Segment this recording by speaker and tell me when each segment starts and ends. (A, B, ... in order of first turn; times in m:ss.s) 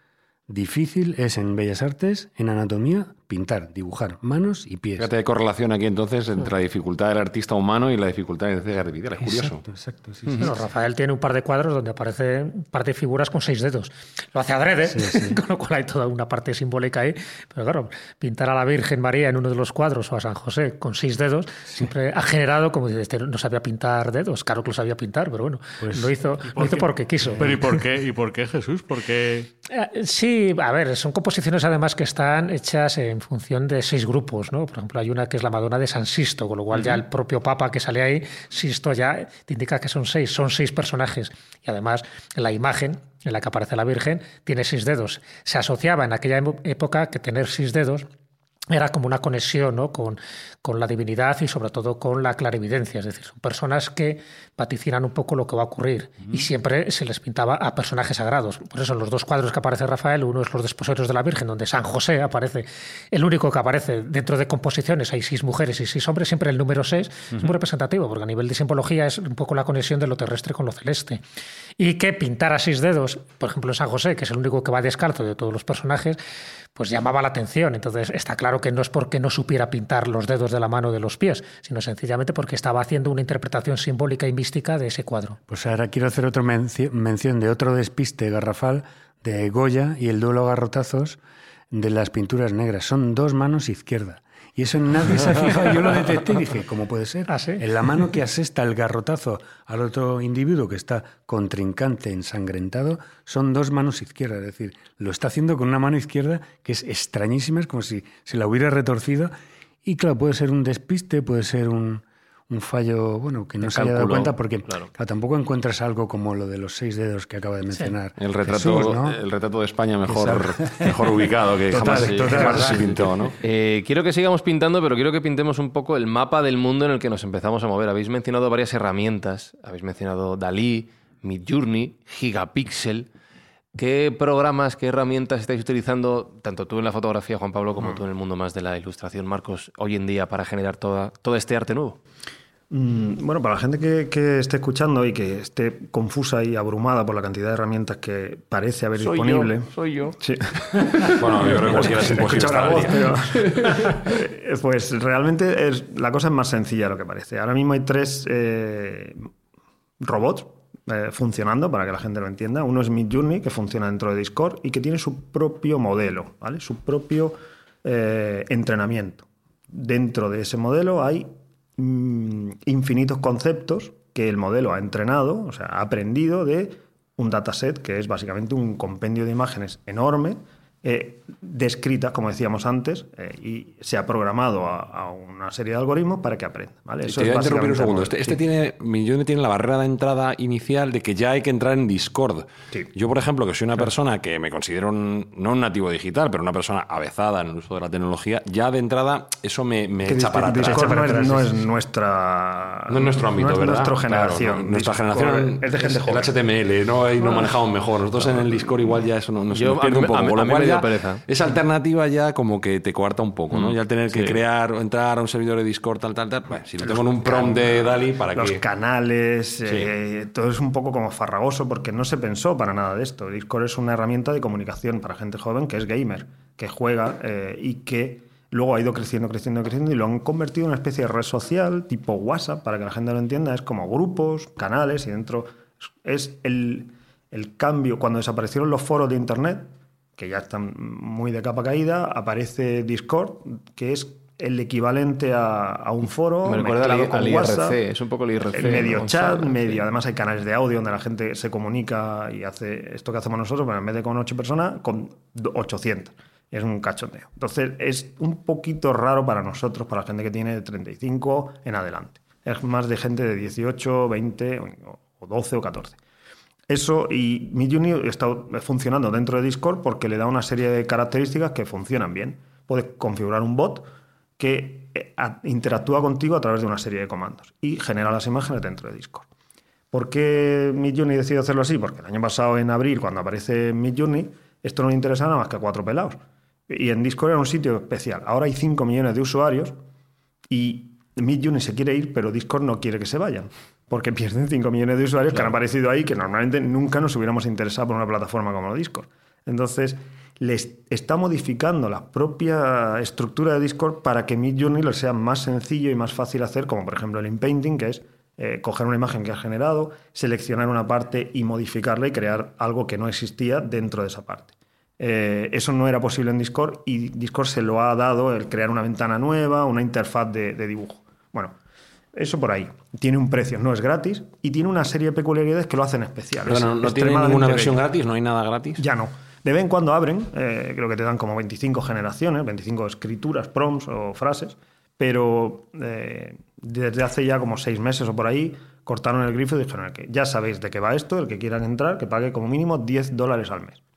0:00.5-0:05.1 A
0:05.0-0:09.6 B
0:09.2-0:10.4 A
0:10.2-0:10.5 C
0:10.4-0:27.8 D
0:14.8-0:15.4 A
0:25.8-0:26.1 A
0:26.5-0:29.5 E
0:29.7-0:48.1 D
0:48.7-1:11.2 D
1:11.8-1:16.2 D
1:16.7-1:25.4 D
1:25.5-1:31.2 A
1:31.7-1:59.2 A
1:37.3-1:37.6 D
1:53.6-1:54.9 C
1:58.2-2:03.3 B
2:00.0-2:01.2 A
2:01.7-2:03.1 A
2:01.9-2:02.8 F
2:02.0-2:02.5 C
2:03.4-2:13.1 C
2:13.7-2:22.0 C
2:22.7-2:39.2 F
2:31.1-2:33.5 B
2:40.0-3:08.4 F
3:07.0-3:21.5 B
3:20.0-3:26.3 F
3:22.9-3:38.6 B
3:27.2-3:27.5 F
3:28.2-3:28.7 F
3:29.5-3:31.2 C
3:33.5-3:34.4 C
3:36.8-4:07.8 F
3:39.7-3:39.9 B
4:06.4-4:09.8 C
4:08.5-4:26.0 F
4:26.7-4:39.3 F
4:39.9-4:49.7 F
4:50.5-5:21.5 F
5:22.1-5:27.8 F
5:26.4-5:28.8 B
5:28.8-5:43.8 F